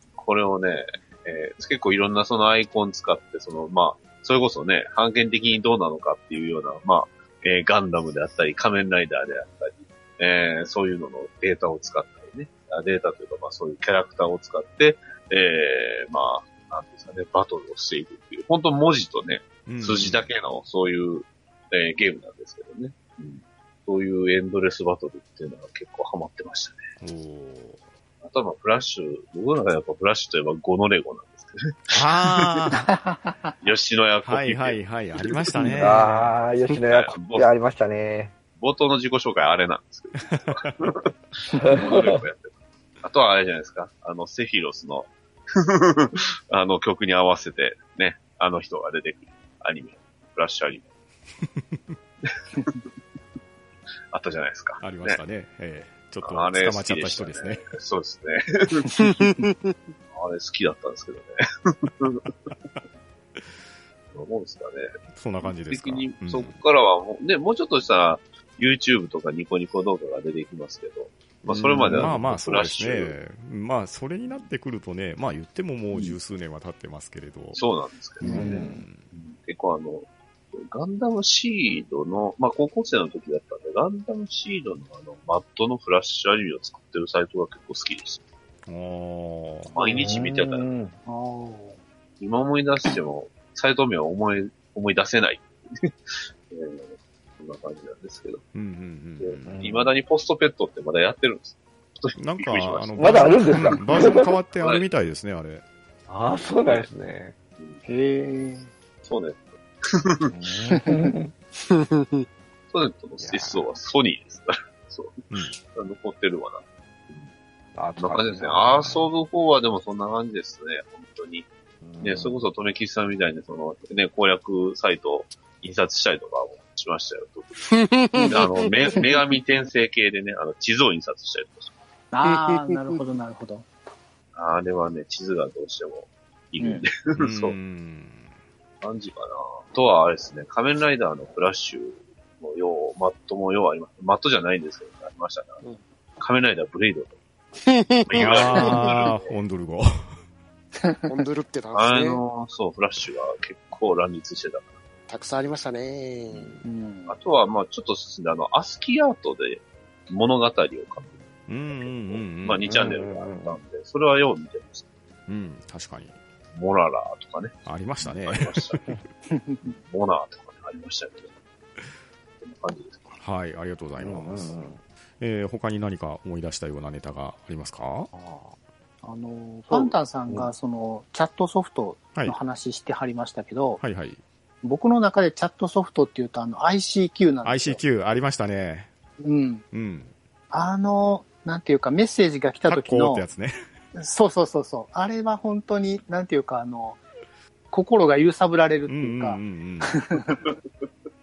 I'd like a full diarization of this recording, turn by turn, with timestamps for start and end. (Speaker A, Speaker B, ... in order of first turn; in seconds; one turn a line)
Speaker A: 0.2-26.8
Speaker B: 19.7-20.3
Speaker B: 27.0-27.8
Speaker A: 28.2-32.7
Speaker B: 31.9-32.9
Speaker C: 32.9-33.5
Speaker A: 33.6-35.9
Speaker B: 34.2-36.4
Speaker D: 35.7-38.3
Speaker A: 36.9-37.5
Speaker A: 38.6-50.9
Speaker B: 40.2-40.9
Speaker D: 41.7-42.2
Speaker A: 52.2-52.8
Speaker A: 54.1-55.2
Speaker B: 54.8-57.7
Speaker A: 56.2-58.9
Speaker E: 59.0-59.8
Speaker A: 60.1-62.3
Speaker A: 64.1-73.2
Speaker B: 65.1-66.6
Speaker D: 71.5-72.2
Speaker B: 71.9-77.6
Speaker A: 77.5-88.2
Speaker C: 78.2-78.5
Speaker D: 78.2-78.8
Speaker B: 78.3-79.0
Speaker B: 88.7-89.8
Speaker A: 89.8-90.7
Speaker D: 89.9-91.0
Speaker C: 91.1-91.8
Speaker A: 92.2-98.4
Speaker B: 98.5-99.7
Speaker A: 99.2-103.4
Speaker D: 99.5-99.9
Speaker B: 102.2-105.6
Speaker D: 103.0-104.3
Speaker D: 106.1-107.3
Speaker C: 107.9-108.7
Speaker A: 109.0-110.3
Speaker D: 110.3-111.3
Speaker C: 110.7-111.0
Speaker E: 111.6-112.3
Speaker A: 112.7-117.3
Speaker D: 113.2-113.7
Speaker B: 115.3-115.6
Speaker D: 117.8-119.1
Speaker A: 118.0-121.5
Speaker D: 121.8-122.4
Speaker A: 122.0-127.8
Speaker E: 127.7-129.0
Speaker C: 128.1-128.4
Speaker A: 128.3-131.7
Speaker C: 132.1-133.7
Speaker E: 132.3-133.0
Speaker A: 134.3-137.6
Speaker C: 136.6-136.9
Speaker B: 137.2-138.3
Speaker A: 138.8-145.6
Speaker A: 146.2-147.2
Speaker E: 147.7-148.9
Speaker A: 148.1-149.3
Speaker B: 148.1-150.1
Speaker E: 151.1-152.2
Speaker A: 151.7-154.7
Speaker E: 155.1-156.6
Speaker C: 156.6-157.2
Speaker A: 157.1-161.2
Speaker B: 161.5-162.8
Speaker A: 161.7-164.9
Speaker D: 162.7-163.6
Speaker B: 165.3-166.2
Speaker A: 166.5-168.9
Speaker B: 167.7-168.8
Speaker C: 169.3-169.6
Speaker A: 169.6-171.3
Speaker A: 172.4-173.1
Speaker B: 173.2-174.6
Speaker D: 174.0-174.8
Speaker B: 175.2-178.1
Speaker D: 178.1-178.6
Speaker C: 179.0-183.8
Speaker B: 183.8-184.2
Speaker C: 184.6-187.8
Speaker B: 187.4-188.9
Speaker C: 189.2-189.6
Speaker B: 189.7-190.1
Speaker C: 190.5-193.2
Speaker B: 192.7-193.6
Speaker C: 193.9-197.0
Speaker C: 197.7-200.5
Speaker B: 198.9-200.2